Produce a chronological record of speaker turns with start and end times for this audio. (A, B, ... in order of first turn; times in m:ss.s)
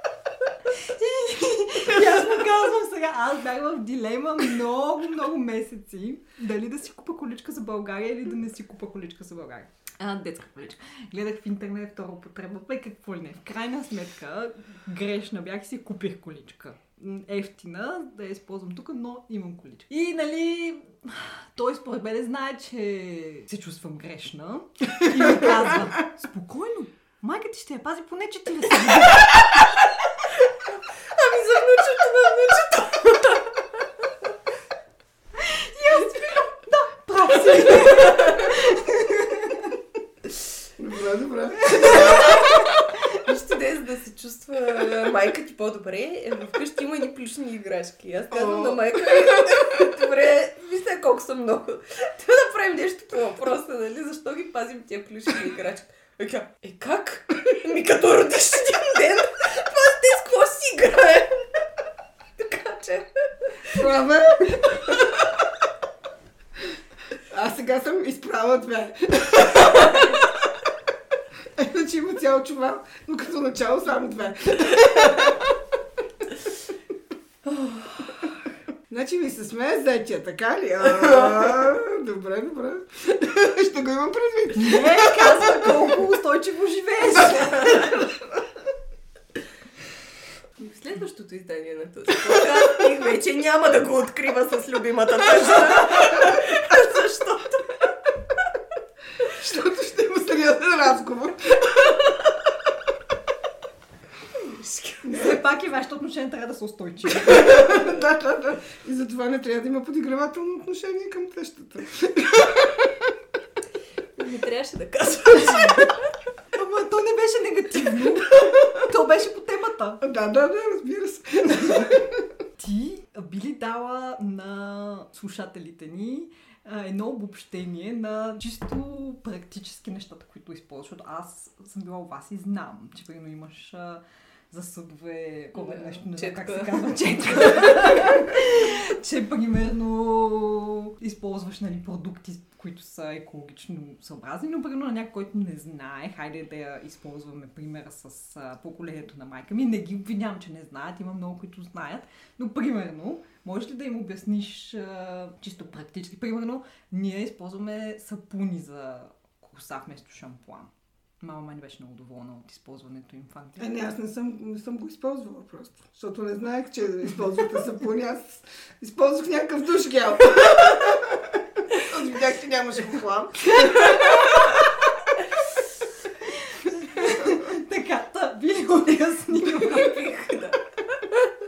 0:00.7-0:29.2 A
0:30.7-0:33.9 B
0:35.4-0:39.7 A
0:37.9-0:38.4 B
0:40.8-0:42.4 C
0:41.7-1:01.6 B
0:48.5-0:48.8 C
1:02.4-1:03.1 B
1:03.7-1:04.9 C
1:07.3-1:10.2 C
1:11.5-1:15.6 C
1:17.6-1:18.0 A
1:18.9-1:25.7 C
1:24.5-1:27.9 A
1:30.6-1:37.9 B
1:39.2-1:42.0 C
1:44.3-1:45.1 B
1:45.1-1:47.8 A
1:47.2-1:53.1 C
1:54.2-1:56.0 B
1:56.5-2:00.0 A
2:00.0-2:02.2 C
2:02.6-2:40.7 A
2:15.5-2:18.2 B
2:41.2-2:43.7 A
2:43.6-2:54.6 C
2:56.2-3:00.1 A
2:59.4-3:01.3 B